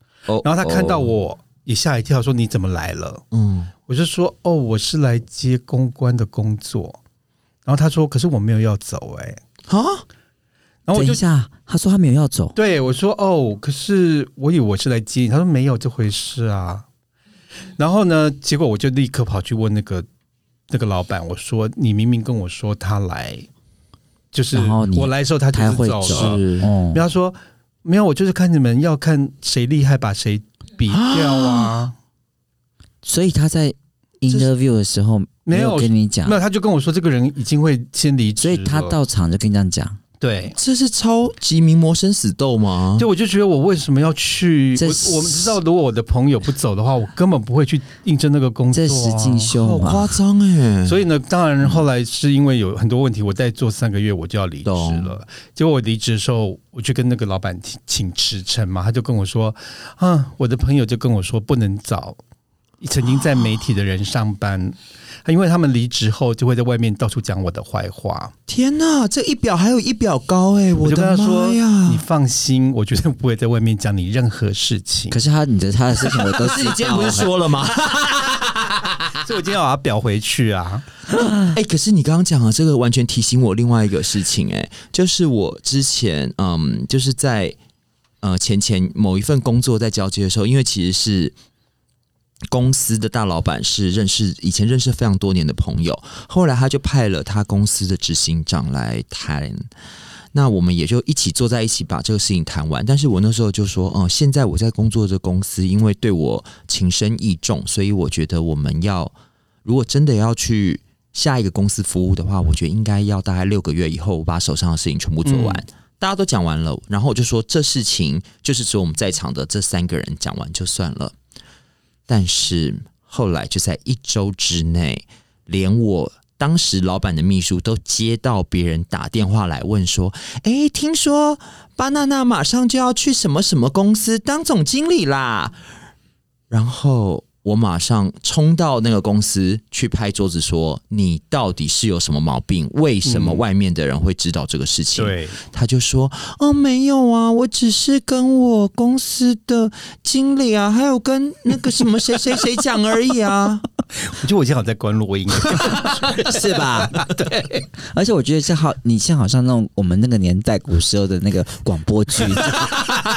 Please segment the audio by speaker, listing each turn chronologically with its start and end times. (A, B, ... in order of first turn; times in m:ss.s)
0:00.3-0:01.1 A
0:00.4-0:03.2 B
0:03.3-0:03.7 A
0:03.9-0:07.0 B
0:07.7-0:09.4 B
0:09.7-0:10.0 A
0:10.9-0:11.2 B
0:11.0-0:12.6 C
0:12.6-0:16.8 B
0:17.8-0:20.1 B
0:20.7-0:23.5 B
0:24.3-0:32.0 B
0:24.5-0:27.0 C
0:26.1-0:26.7 A
0:30.9-0:31.7 A
0:33.0-0:36.4 C
0:35.5-0:39.0 B
0:38.4-0:40.0 C
0:40.2-0:40.6 B
0:40.6-0:43.1 A
0:43.0-0:49.5 B
0:44.8-0:45.6 C
0:48.7-0:50.2 C
0:49.5-0:51.0 A
0:50.8-1:02.2 B
0:54.6-0:55.2 A
1:02.8-1:08.3 B
1:08.5-1:12.0 A
1:10.8-1:15.2 B
1:15.1-1:17.3 C
1:16.0-1:19.1 A
1:19.2-1:20.9 B
1:21.1-1:21.5 C
1:21.4-1:27.6 A
1:28.2-1:31.4 A
1:32.5-1:39.7 A
1:40.3-1:49.1 A
1:49.6-2:01.2 A
1:55.2-1:55.6 B
2:02.1-2:15.6 A
2:16.5-2:33.6 A
2:23.0-2:23.4 B
2:25.0-2:25.4 B
2:34.0-2:37.6 B
2:36.1-2:37.0 C
2:37.9-2:42.7 C